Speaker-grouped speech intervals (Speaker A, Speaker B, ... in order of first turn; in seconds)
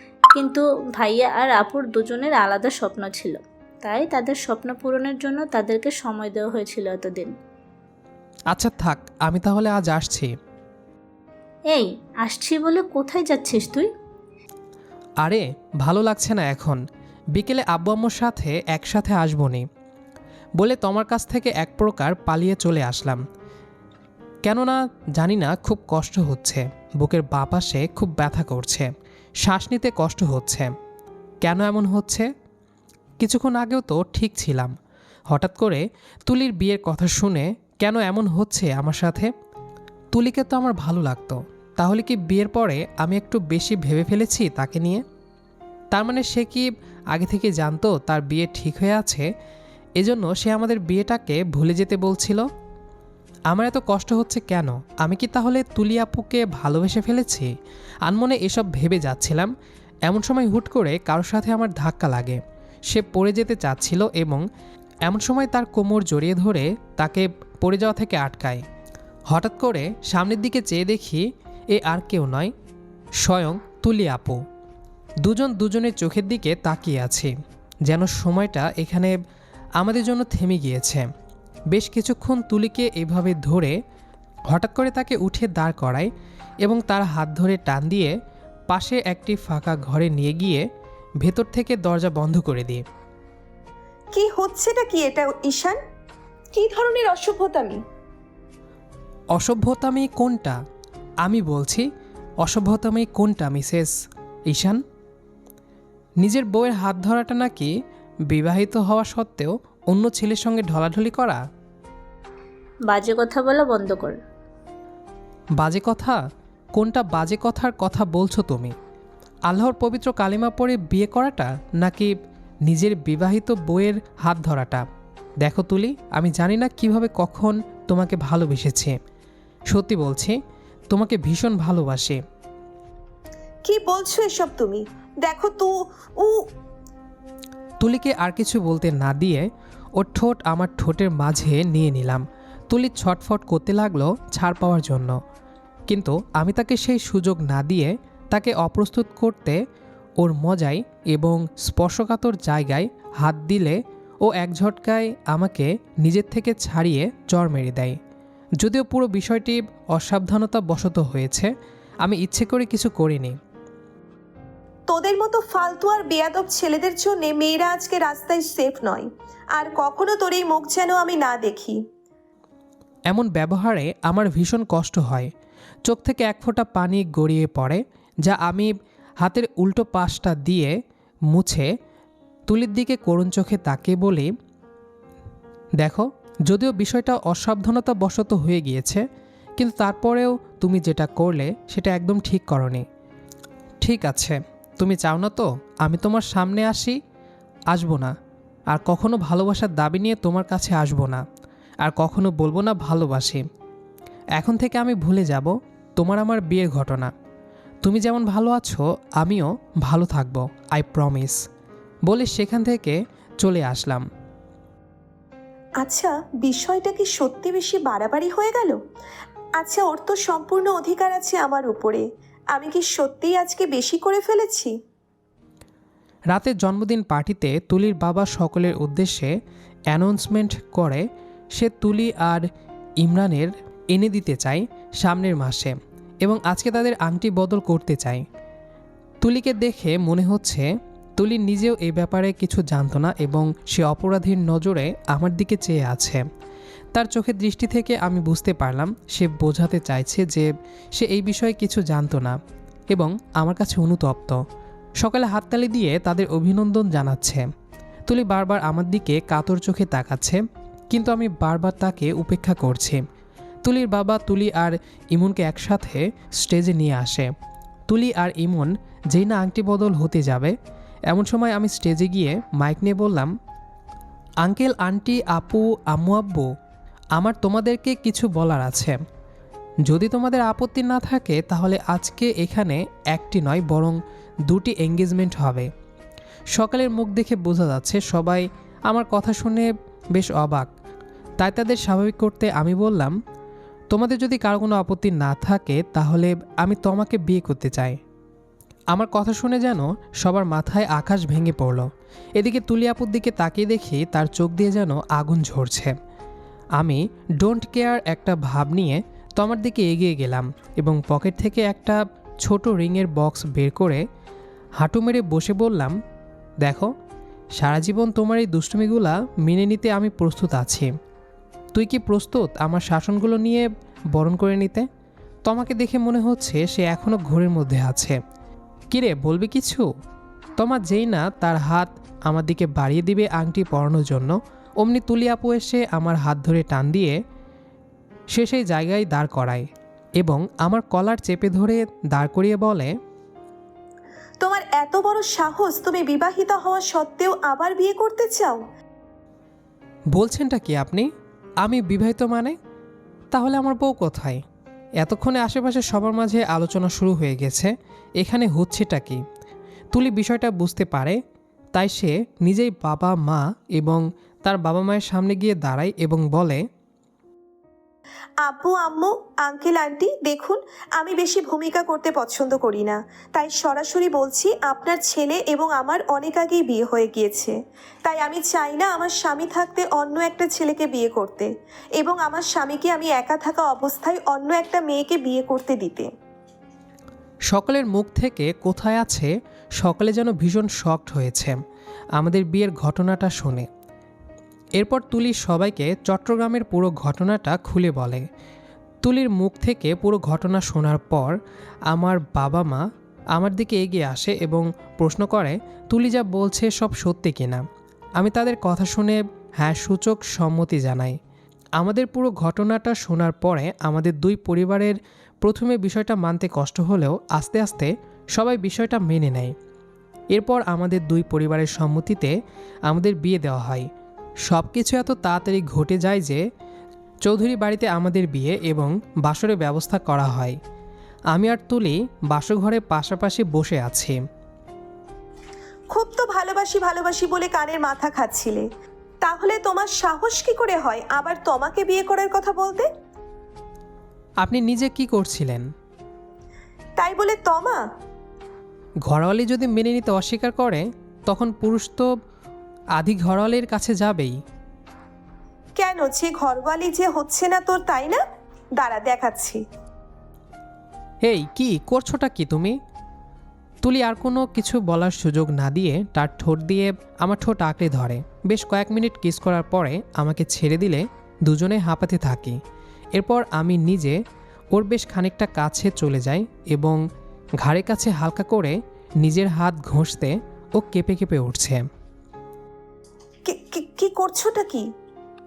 Speaker A: 0.3-7.3, 11.7-13.9, 112.9-114.2
Speaker B: 8.5-10.3, 15.2-16.8, 17.3-19.7, 20.6-23.2, 24.4-28.9, 29.4-30.7, 31.4-32.3, 33.2-34.7, 35.3-39.3, 40.1-45.0, 45.9-49.3, 50.0-52.5, 53.5-57.5, 58.1-59.5, 60.0-64.5, 65.1-68.7, 69.3-72.5, 73.2-74.4, 75.2-77.3, 77.9-79.2, 79.8-81.1, 81.7-83.8, 84.5-86.1, 86.6-88.1, 88.7-90.7, 91.2-92.8, 99.3-100.6, 101.2-101.9, 102.4-103.9, 104.5-104.8, 106.2-107.7, 108.3-111.4, 115.6-116.2, 116.8-118.7, 119.5-122.2, 122.7-124.8, 125.4-129.0, 129.7-130.4, 130.9-132.2, 137.8-145.2, 145.9-149.6, 150.2-158.0, 158.6-161.5, 162.0-163.4, 173.1-175.3, 175.9-180.8, 181.3-181.7, 182.5-184.3, 185.8-189.1, 189.6-192.9, 193.8-197.0, 197.7-198.1, 198.7-201.2, 201.8-203.4, 204.4-207.1, 207.8-211.4, 212.1-214.1, 226.3-229.3, 229.9-232.5, 233.0-238.2, 239.2-246.2, 246.9-252.4, 252.9-254.4, 255.0-257.5, 258.1-263.0, 263.6-267.3, 267.9-270.6, 271.1-273.3, 274.4-276.5, 277.2-279.0, 279.9-285.7, 286.6-290.7, 291.4-293.1, 293.9-298.0, 298.9-305.9, 306.8-314.0, 314.8-316.0, 316.6-316.9, 317.6-320.9, 321.7-324.9, 325.4-328.2, 328.9-329.9, 330.6-337.2, 338.3-339.7, 340.2-342.9, 350.1-351.1, 351.6-352.6, 353.3-354.4, 355.0-359.2, 359.9-361.2, 361.8-366.6, 387.5-391.6, 392.2-393.7, 394.8-398.2, 399.0-401.4, 401.9-402.8, 403.4-407.6, 408.2-411.2, 411.8-419.6, 420.3-422.4, 422.9-423.9, 424.5-426.4, 427.2-430.6, 431.3-434.2, 444.4-445.7, 449.1-452.1, 453.0-454.4, 461.2-462.8, 463.8-472.6, 473.1-474.2, 474.7-477.0, 477.6-481.9
Speaker C: 94.1-95.8, 96.5-97.8, 133.7-136.5, 164.9-171.8, 215.8-218.8, 219.6-224.8, 344.4-348.6, 368.4-386.1, 435.9-438.7, 439.2-442.9, 447.0-447.8, 455.8-458.2, 458.8-459.6, 483.5-484.9